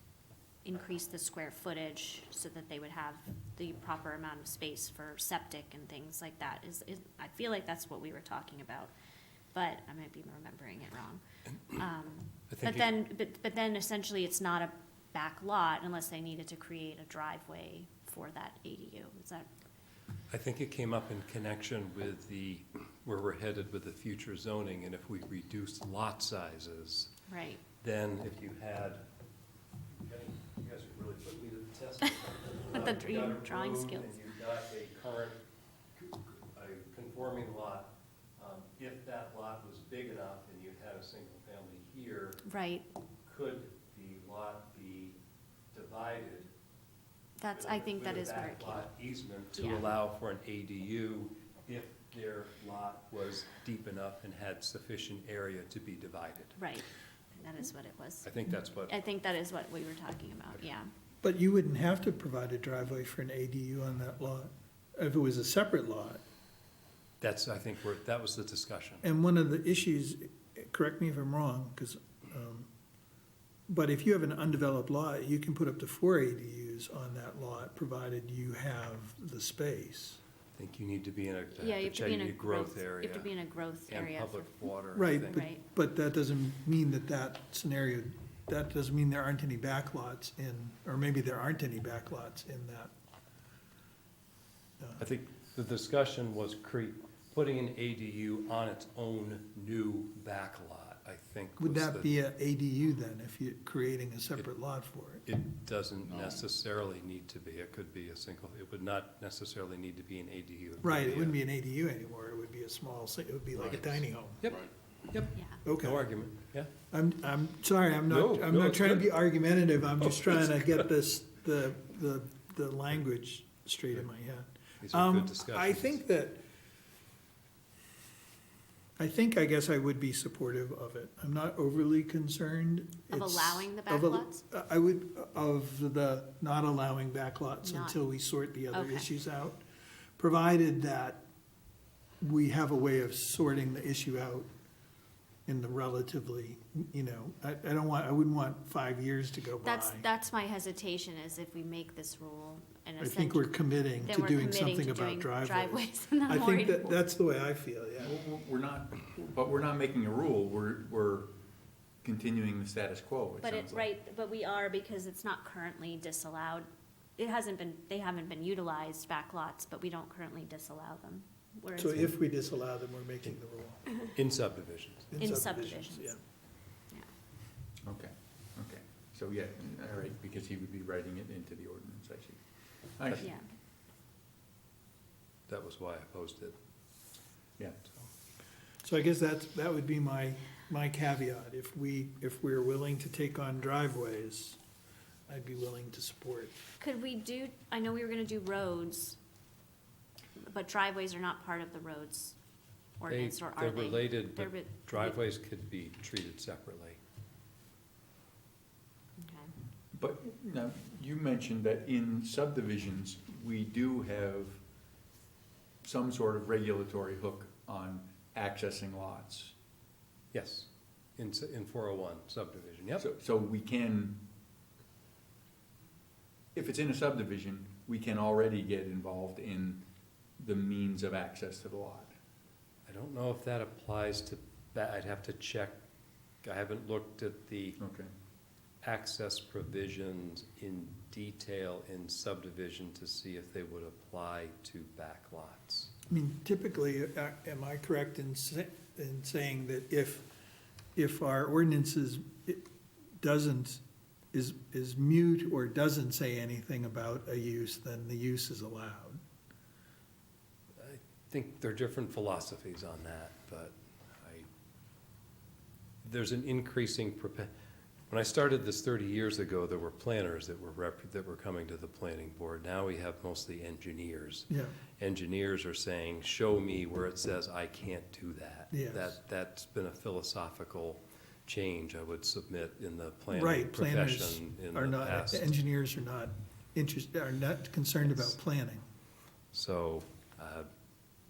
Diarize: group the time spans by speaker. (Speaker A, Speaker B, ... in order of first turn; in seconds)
Speaker A: 0.6-8.9, 9.5-19.5, 27.3-27.6, 32.7-34.1, 42.4-42.9, 47.4-48.9, 49.6-49.9, 56.6-58.3, 58.9-60.9, 81.6-84.7, 85.2-85.6, 115.3-115.6, 133.1-134.4, 137.6-138.0, 138.7-139.1, 149.6-157.0, 163.4-172.2, 175.2-176.2, 183.2-183.5, 196.8-199.2, 200.4-202.4, 203.0-205.2, 209.2-209.5
Speaker B: 12.5-12.9, 20.3-27.1, 27.8-29.0, 29.9-35.4, 36.0-42.4, 43.2-45.2, 45.7-46.5, 47.5-56.6, 58.2-59.0, 67.2-69.0, 80.5-83.3, 83.9-85.5, 95.0-102.1, 105.3-111.4, 114.4-116.7, 118.1-119.1, 120.2-120.8, 124.8-126.0, 174.1-175.2, 185.5-186.6, 203.1-207.0, 220.3-223.1, 232.9-235.8, 236.4-237.8, 238.8-245.9, 260.8-264.5, 266.0-267.5, 268.1-285.5, 288.0-288.4, 289.5-290.7
Speaker C: 61.2-66.2, 69.0-72.7, 73.7-80.2, 84.9-92.9, 94.8-95.0, 101.6-105.3, 110.8-114.4, 115.6-116.1, 116.9-126.4, 129.0-139.6, 140.2-141.3, 142.2-144.5, 145.5-150.1, 153.0-158.2, 171.8-173.9, 175.1-176.2, 188.8-194.6, 195.3-196.6, 246.1-250.3, 250.9-252.7, 253.2-253.8, 254.3-259.2, 274.5-274.8, 278.7-279.1, 283.3-288.8
Speaker D: 158.0-161.3, 162.0-163.9, 177.8-182.4, 183.0-183.3, 209.9-214.6, 215.8-219.6, 223.0-224.2, 226.6-229.8, 230.4-232.1, 237.8-238.1